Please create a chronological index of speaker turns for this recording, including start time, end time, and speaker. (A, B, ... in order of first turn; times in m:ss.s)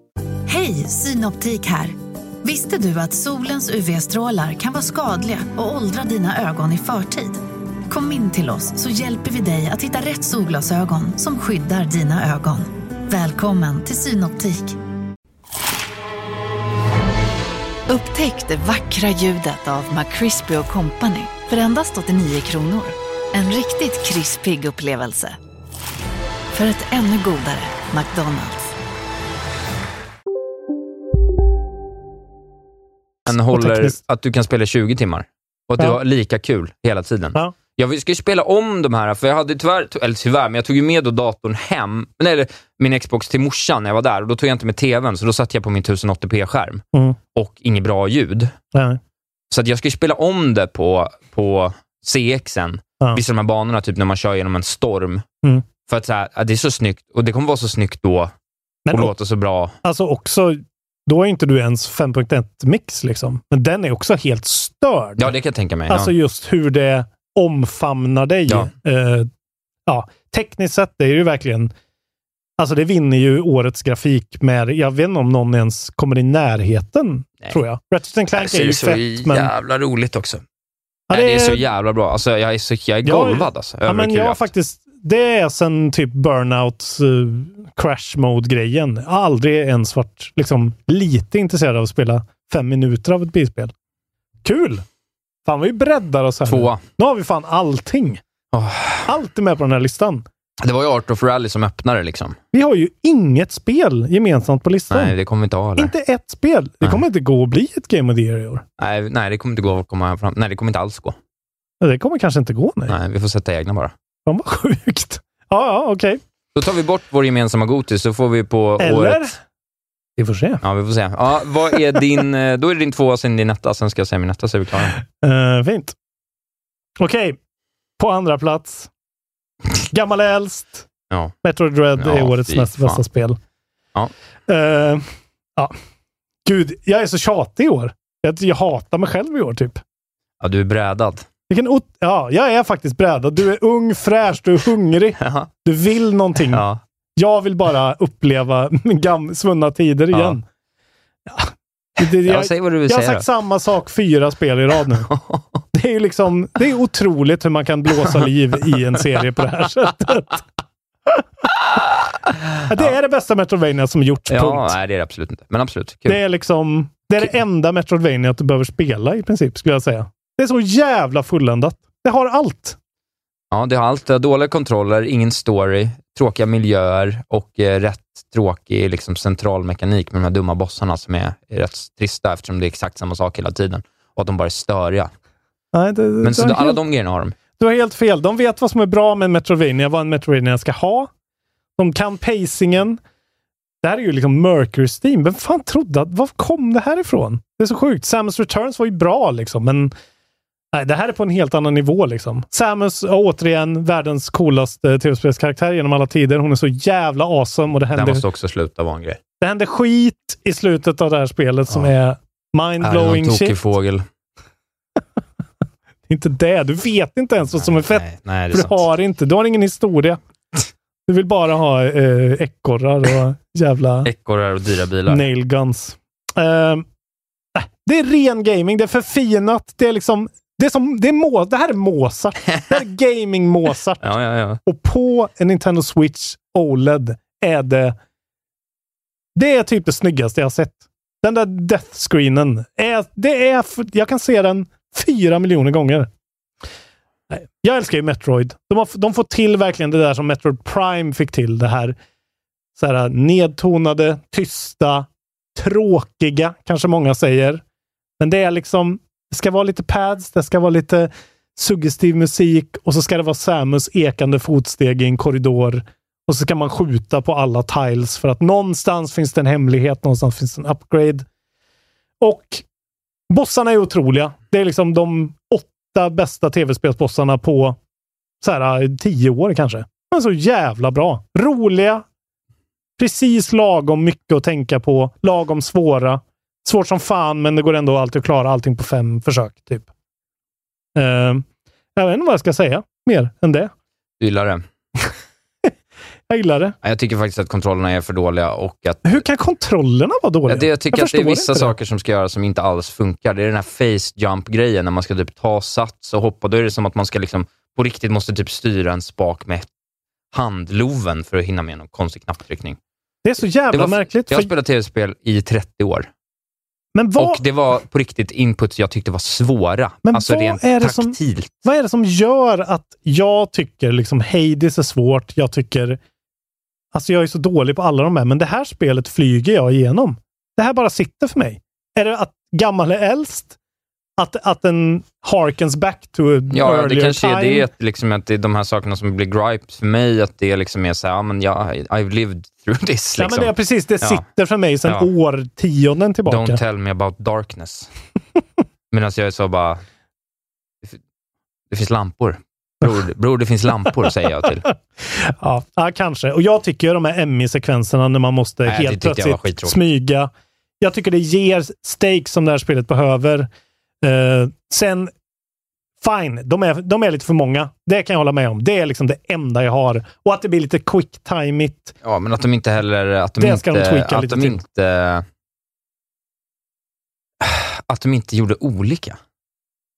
0:00.5-0:14.8 A
0:17.9-0:25.4 A
0:26.5-0:28.7 A
0:33.2-0:48.5 B
0:33.3-0:34.0 C
0:48.7-0:49.0 C
0:49.5-0:55.2 B
0:55.8-0:58.3 B
0:58.8-0:59.1 C
0:58.9-0:59.7 B
0:59.8-1:05.3 C
1:05.2-1:06.1 B
1:05.9-1:09.3 C
1:09.9-1:11.7 C
1:12.6-1:19.5 C
1:18.3-1:20.4 B
1:21.1-1:21.6 C
1:21.1-1:24.4 B
1:23.0-1:33.7 C
1:34.4-1:34.8 C
1:35.4-1:38.2 C
1:36.4-1:36.8 B
1:38.5-1:39.1 B
1:39.0-1:40.2 C
1:40.6-1:42.4 B
1:42.5-1:45.1 C
1:44.9-1:45.9 B
1:45.8-1:48.6 C
1:48.8-1:51.2 B
1:51.8-1:53.0 C
1:52.9-1:53.9 B
1:54.2-1:56.2 C
1:56.5-1:59.3 B
1:58.8-1:59.4 C
2:00.2-2:00.6 C
2:00.6-2:05.0 B
2:05.1-2:05.9 C
2:07.0-2:07.4 C
2:08.0-2:08.9 C
2:09.9-2:10.9 C
2:11.4-2:13.4 C
2:12.0-2:13.0 B
2:14.5-2:15.0 C
2:16.4-2:19.8 C
2:20.4-2:21.3 B
2:21.5-2:26.6 C
2:25.2-2:25.5 B
2:26.5-2:26.8 B
2:27.2-2:30.4 C
2:30.1-2:30.4 B
2:31.3-2:35.1 C
2:32.0-2:33.2 B
2:35.1-2:35.6 B
2:35.7-2:40.4 C
2:42.7-2:44.7 C
2:44.3-2:46.2 B
2:46.1-2:52.8 C
2:53.5-3:05.1 B
3:05.7-3:06.8 C
3:06.2-3:07.4 B
3:07.6-3:11.1 C
3:11.8-3:13.0 C
3:13.8-3:19.9 C
3:20.7-3:28.2 C
3:27.9-3:29.2 B
3:29.4-3:33.6 C
3:32.8-3:34.0 B
3:36.1-3:40.2 C
3:37.5-3:38.8 B
3:41.1-3:44.1 C
3:44.0-3:45.3 B
3:45.1-3:46.8 C
3:47.5-3:54.1 C
3:54.0-3:54.6 B
3:54.6-3:58.0 C
3:59.3-4:06.1 C
4:07.3-4:12.0 C
4:12.8-4:17.6 C
4:18.2-4:31.2 C
4:32.2-4:32.6 C
4:33.3-4:37.8 C
4:38.4-4:42.0 C
4:43.0-4:49.9 C
4:50.9-4:51.4 C
4:52.0-4:53.7 C
4:54.2-4:54.6 B
4:56.3-4:56.8 C
4:56.8-4:59.2 B
4:59.0-5:01.7 C
5:00.5-5:09.7 B
5:10.3-5:12.8 B
5:13.2-5:14.5 C
5:13.7-5:16.1 B
5:16.9-5:17.4 C
5:17.2-5:21.6 B
5:20.0-5:26.0 C
5:26.9-5:33.6 C
5:34.2-5:37.7 C
5:36.5-5:44.2 B
5:43.2-5:46.6 C
5:46.3-5:47.9 B
5:48.9-5:49.8 B
5:51.7-5:54.7 B
5:55.0-6:00.3 C
5:58.6-5:59.8 B
6:00.8-6:03.5 C
6:04.0-6:05.1 C
6:06.0-6:11.9 C
6:12.0-6:15.2 B
6:13.4-6:14.6 C
6:17.4-6:19.2 B